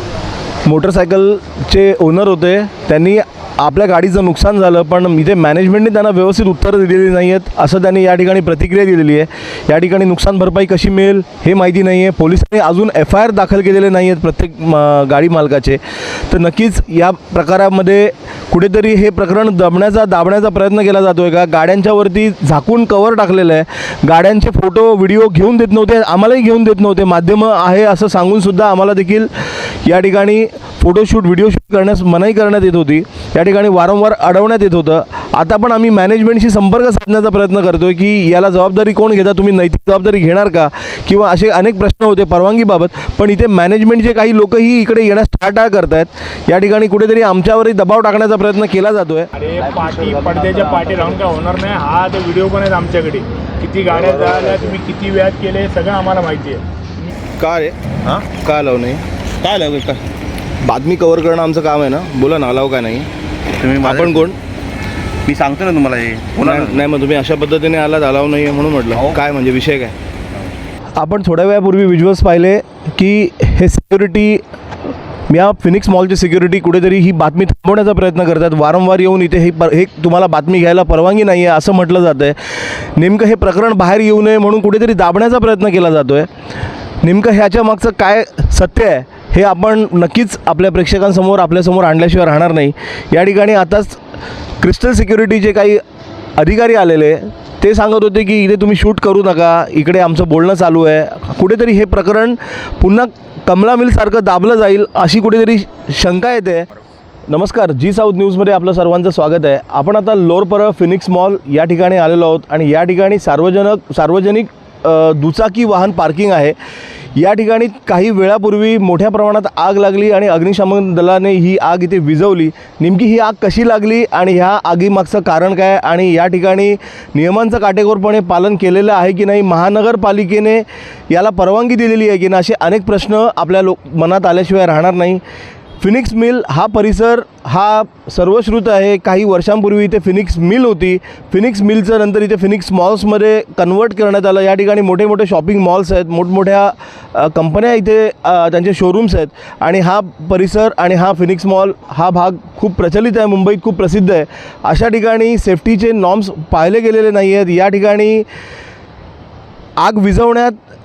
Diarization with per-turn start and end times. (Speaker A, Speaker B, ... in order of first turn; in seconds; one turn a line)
Speaker A: 0.7-29.3
Speaker A: 29.8-49.3
Speaker B: 49.3-56.6
Speaker A: 57.4-57.8
Speaker A: 58.3-59.0
Speaker C: 59.4-60.0
Speaker A: 60.6-63.1
Speaker C: 63.6-64.3
Speaker A: 63.8-64.4
Speaker C: 65.2-66.8
Speaker A: 66.4-69.9
Speaker A: 71.0-74.4
Speaker A: 75.3-82.3
Speaker A: 83.0-86.3
Speaker A: 87.0-94.0
Speaker A: 94.6-95.8
Speaker A: 96.4-106.7
Speaker A: 107.3-116.5
Speaker A: 117.2-135.2
Speaker A: 135.8-158.3
Speaker A: 159.8-160.6